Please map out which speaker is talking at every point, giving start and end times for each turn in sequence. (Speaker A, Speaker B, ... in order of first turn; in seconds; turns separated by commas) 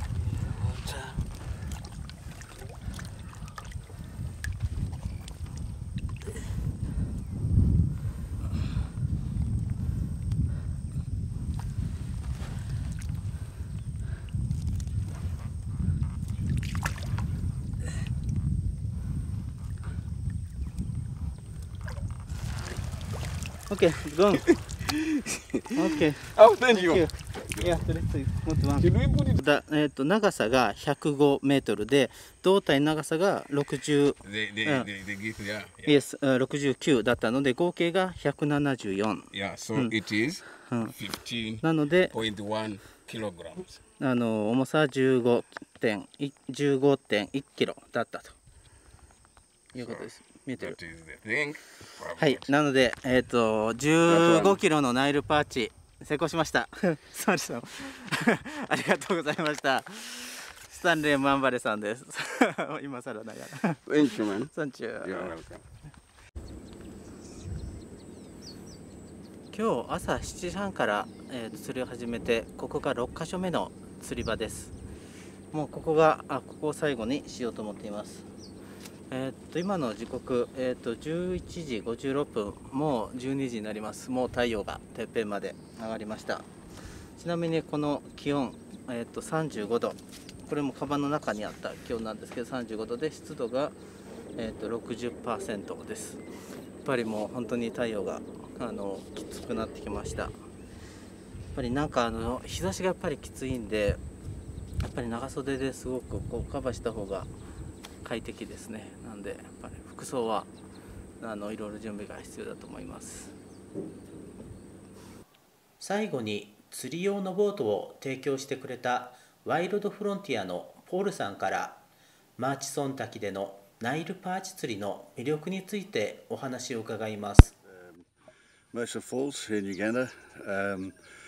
Speaker A: 0.3-1.2, Speaker B: 23.7-24.5, Speaker A: 24.5-25.7, Speaker B: 25.8-34.9, Speaker A: 26.2-27.8, Speaker A: 28.8-29.4, Speaker A: 34.2-36.0, Speaker B: 35.9-39.9, Speaker A: 39.3-43.8, Speaker B: 40.7-40.9, Speaker B: 41.6-42.1, Speaker B: 44.0-48.4, Speaker B: 49.7-50.8, Speaker A: 50.6-52.5, Speaker B: 52.2-63.8, Speaker A: 54.1-54.6, Speaker A: 63.9-64.5, Speaker B: 64.5-65.3, Speaker A: 65.0-65.6, Speaker B: 69.5-74.7, Speaker B: 75.5-78.3, Speaker B: 79.1-86.5, Speaker B: 87.2-93.8, Speaker B: 94.4-96.2, Speaker B: 96.8-100.3, Speaker B: 101.5-104.0, Speaker B: 104.8-107.3, Speaker B: 108.0-110.5, Speaker B: 111.2-113.3, Speaker B: 115.8-121.8, Speaker B: 122.4-127.5, Speaker C: 127.6-128.1, Speaker C: 128.7-131.0